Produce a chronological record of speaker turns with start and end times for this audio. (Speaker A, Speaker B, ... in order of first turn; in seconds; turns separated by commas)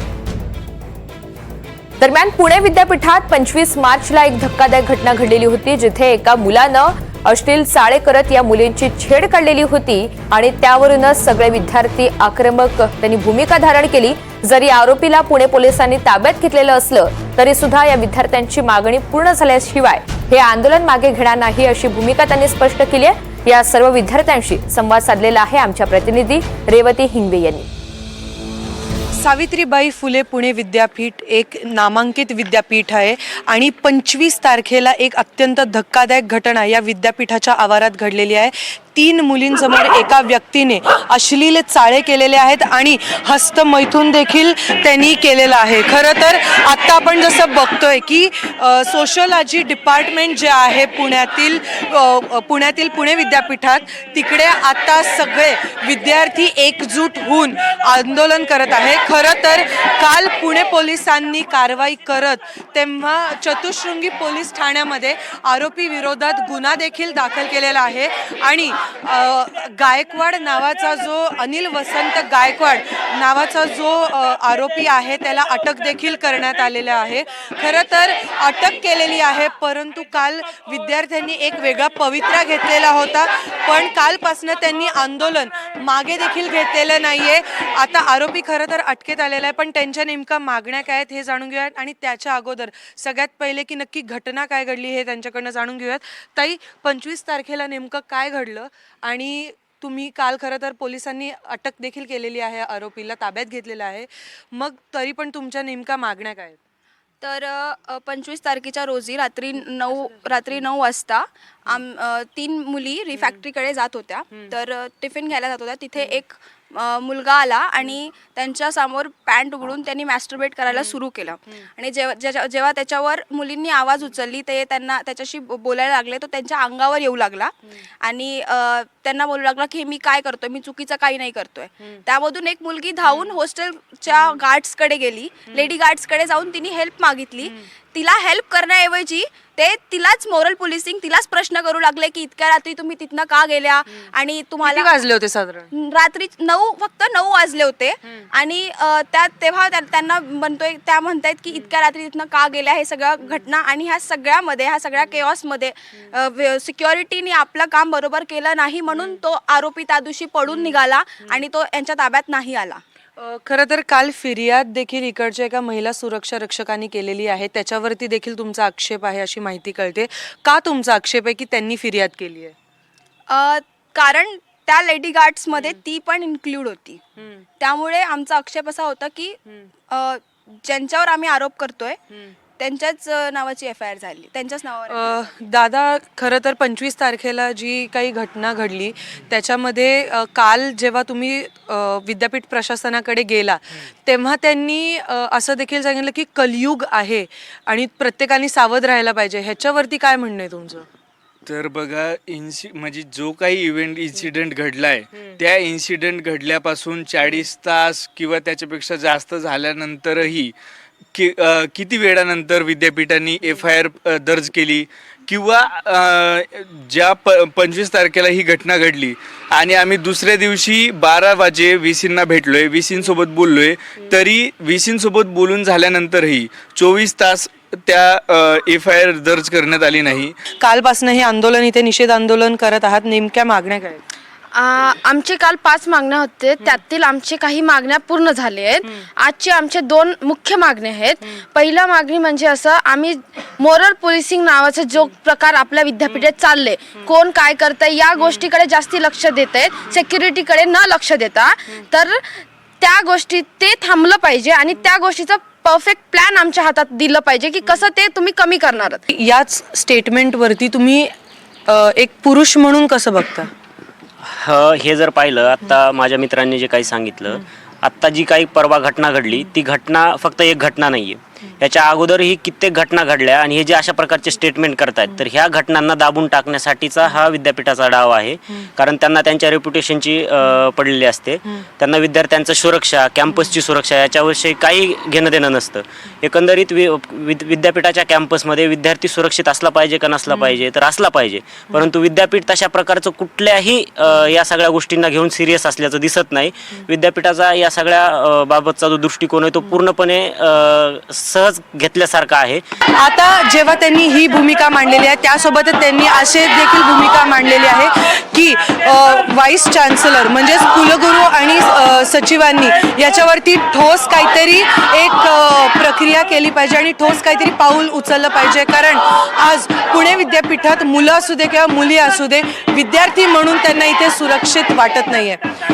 Speaker A: 2.0-27.7, Speaker B: 29.2-106.6, Speaker C: 107.2-144.9, Speaker B: 144.6-145.7, Speaker C: 145.7-162.8, Speaker B: 163.2-172.5, Speaker C: 173.3-177.0, Speaker C: 177.6-179.4, Speaker C: 179.9-182.0, Speaker C: 182.6-185.3, Speaker B: 184.9-200.8, Speaker D: 201.4-210.5, Speaker D: 211.1-230.4, Speaker B: 230.6-234.0, Speaker E: 234.5-252.2, Speaker E: 252.8-259.0, Speaker B: 259.1-261.1, Speaker B: 261.7-263.5, Speaker F: 264.3-302.6, Speaker B: 303.0-325.4